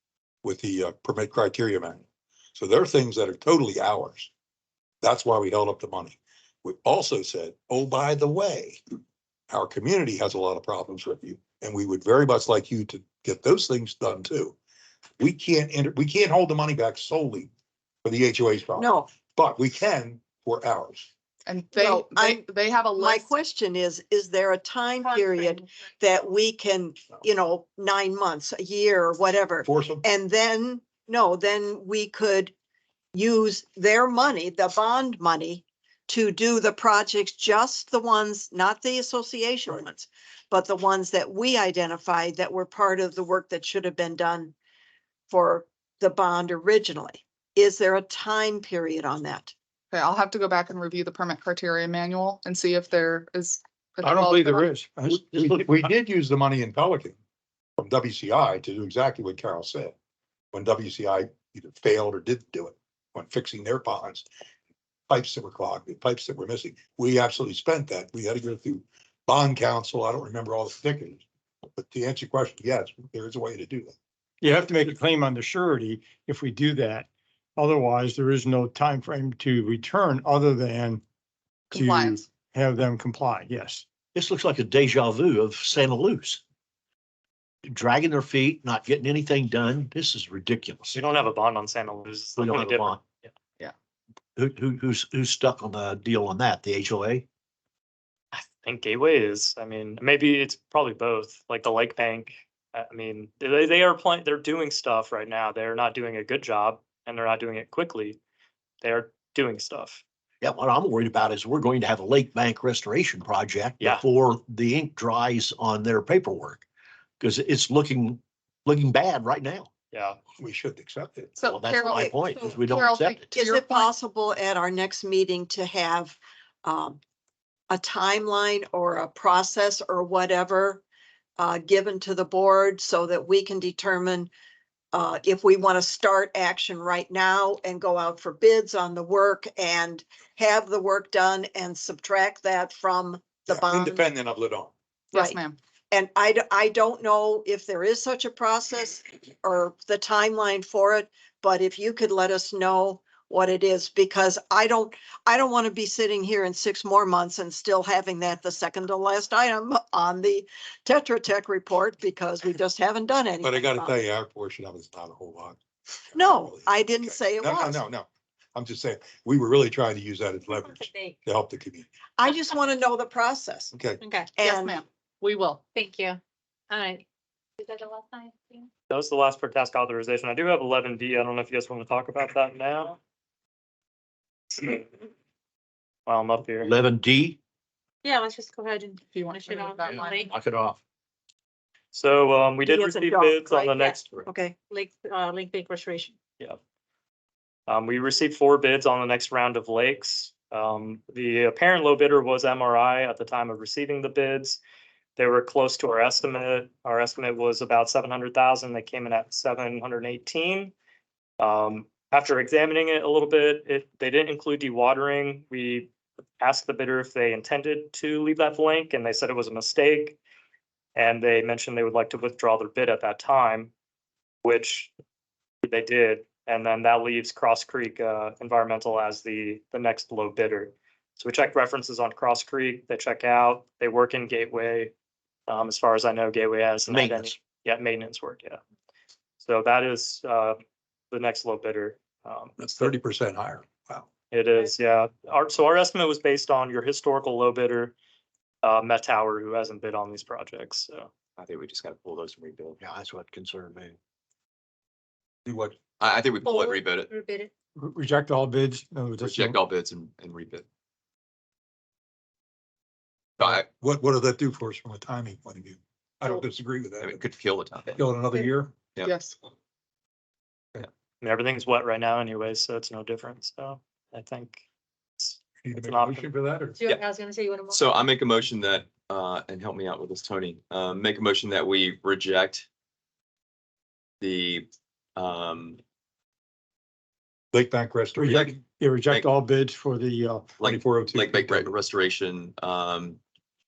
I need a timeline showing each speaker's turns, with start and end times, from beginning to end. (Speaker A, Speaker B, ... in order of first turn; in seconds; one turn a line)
Speaker A: 0.4-2.0
Speaker A: 2.5-4.3
Speaker A: 5.0-8.8
Speaker A: 9.5-14.6
Speaker A: 15.2-17.5
Speaker A: 18.0-21.1
Speaker B: 18.8-19.1
Speaker C: 21.5-23.3
Speaker B: 21.8-32.5
Speaker D: 25.1-25.6
Speaker A: 29.6-30.0
Speaker B: 33.1-44.5
Speaker B: 45.3-49.5
Speaker C: 49.9-54.7
Speaker E: 54.0-55.0
Speaker A: 55.0-57.2
Speaker F: 55.1-55.7
Speaker A: 57.8-59.9
Speaker A: 60.5-64.2
Speaker A: 65.1-71.2
Speaker A: 71.8-73.9
Speaker E: 74.4-81.0
Speaker E: 81.7-83.8
Speaker C: 81.7-82.2
Speaker F: 84.1-86.4
Speaker F: 87.6-90.9
Speaker G: 90.9-93.0
Speaker F: 92.4-93.0
Speaker F: 94.4-97.2
Speaker G: 98.3-108.2
Speaker G: 108.8-110.0
Speaker F: 110.4-116.6
Speaker F: 117.2-119.7
Speaker G: 119.9-120.2
Speaker A: 120.4-121.4
Speaker C: 121.4-123.9
Speaker F: 121.5-123.3
Speaker B: 121.9-122.5
Speaker B: 123.3-127.0
Speaker B: 127.7-130.8
Speaker B: 131.4-134.3
Speaker B: 134.9-144.0
Speaker A: 143.5-144.7
Speaker C: 145.1-145.6
Speaker B: 145.1-145.4
Speaker B: 145.9-163.9
Speaker A: 163.4-165.6
Speaker A: 166.1-171.9
Speaker B: 166.2-167.8
Speaker D: 170.6-171.1
Speaker B: 172.2-173.7
Speaker A: 173.7-174.0
Speaker D: 174.0-174.3
Speaker B: 174.4-174.8
Speaker C: 174.4-175.6
Speaker D: 175.7-177.0
Speaker D: 177.6-178.7
Speaker G: 178.9-183.0
Speaker G: 184.5-184.9
Speaker G: 186.1-186.7
Speaker F: 186.6-187.4
Speaker D: 188.0-190.3
Speaker C: 189.1-190.3
Speaker F: 190.1-190.8
Speaker G: 191.9-194.1
Speaker B: 192.7-194.6
Speaker D: 193.7-194.0
Speaker D: 194.7-196.1
Speaker G: 197.7-204.6
Speaker G: 205.2-210.7
Speaker G: 211.4-220.2
Speaker G: 221.0-223.7
Speaker G: 224.4-224.9
Speaker G: 225.6-234.9
Speaker G: 235.5-238.6
Speaker F: 236.9-237.3
Speaker G: 239.4-240.6
Speaker G: 241.1-242.9
Speaker A: 242.6-244.1
Speaker G: 244.3-247.9
Speaker G: 248.6-251.1
Speaker H: 251.4-252.8
Speaker F: 252.8-253.9
Speaker A: 255.4-255.8
Speaker H: 256.0-257.1
Speaker D: 256.4-257.5
Speaker E: 257.8-259.6
Speaker H: 259.2-260.6
Speaker H: 263.4-263.7
Speaker A: 263.4-267.2
Speaker H: 267.0-268.1
Speaker A: 267.9-268.7
Speaker C: 269.0-269.4
Speaker G: 271.2-274.6
Speaker G: 275.2-276.3
Speaker A: 275.6-276.8
Speaker D: 276.8-278.1
Speaker H: 277.7-282.7
Speaker H: 284.2-285.8
Speaker A: 287.5-288.6
Speaker E: 288.2-290.5
Speaker H: 290.6-293.2
Speaker A: 290.6-291.7